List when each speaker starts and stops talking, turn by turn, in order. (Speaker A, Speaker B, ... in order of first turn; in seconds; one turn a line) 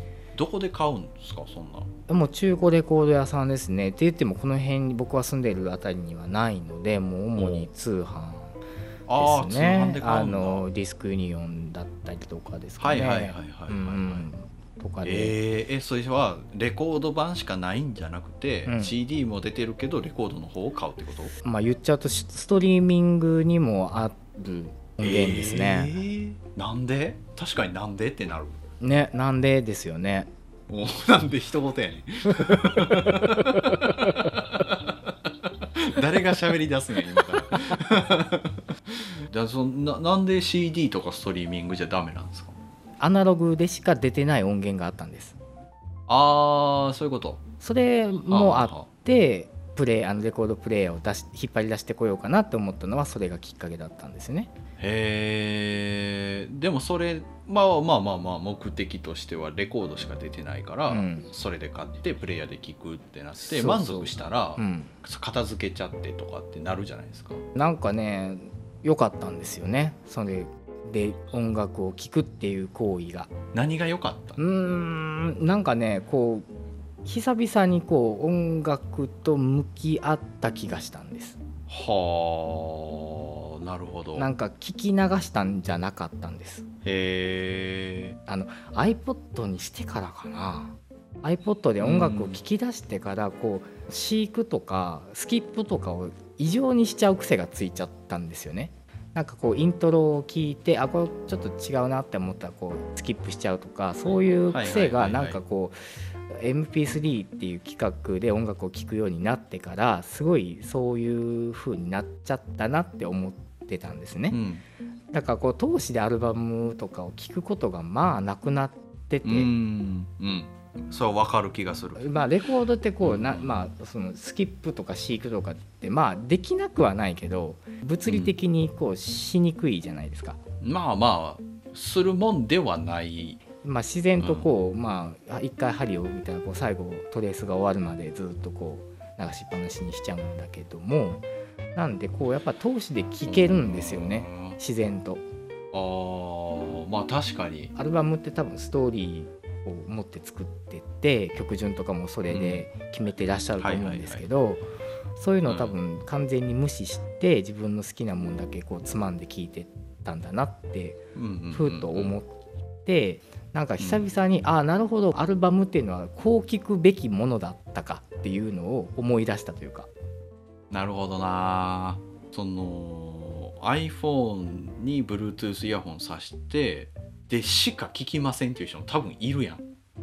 Speaker A: 0.3-1.9
Speaker B: 2.1-8.6
Speaker A: 7.3-7.7
Speaker A: 9.1-10.7
Speaker B: 9.2-15.4
Speaker A: 12.8-14.3
Speaker A: 15.0-21.3
Speaker B: 18.7-18.9
Speaker B: 21.4-25.9
Speaker A: 25.0-28.6
Speaker B: 28.8-30.3
Speaker A: 30.7-38.6
Speaker A: 39.3-42.6
Speaker B: 43.0-45.4
Speaker A: 46.1-47.4
Speaker B: 47.6-54.5
Speaker A: 48.3-48.9
Speaker A: 54.8-67.4
Speaker B: 60.9-61.3
Speaker B: 63.5-64.9
Speaker B: 67.5-73.3
Speaker A: 73.5-74.4
Speaker B: 74.4-76.5
Speaker B: 77.0-81.4
Speaker A: 81.7-84.3
Speaker B: 84.2-86.7
Speaker A: 86.8-88.2
Speaker B: 88.3-105.8
Speaker A: 91.8-92.4
Speaker A: 104.5-105.4
Speaker B: 106.3-114.4
Speaker A: 114.3-114.6
Speaker B: 115.1-119.5
Speaker A: 119.2-122.1
Speaker B: 122.0-130.4
Speaker A: 123.0-123.5
Speaker A: 128.1-128.3
Speaker A: 130.6-133.4
Speaker B: 133.6-145.2
Speaker A: 134.2-134.5
Speaker A: 143.3-144.6
Speaker A: 145.7-147.7
Speaker B: 147.8-161.0
Speaker A: 152.3-152.7
Speaker A: 153.6-154.2
Speaker A: 155.4-155.8
Speaker A: 161.2-162.2
Speaker B: 161.5-169.9
Speaker A: 163.8-164.0
Speaker A: 170.7-179.6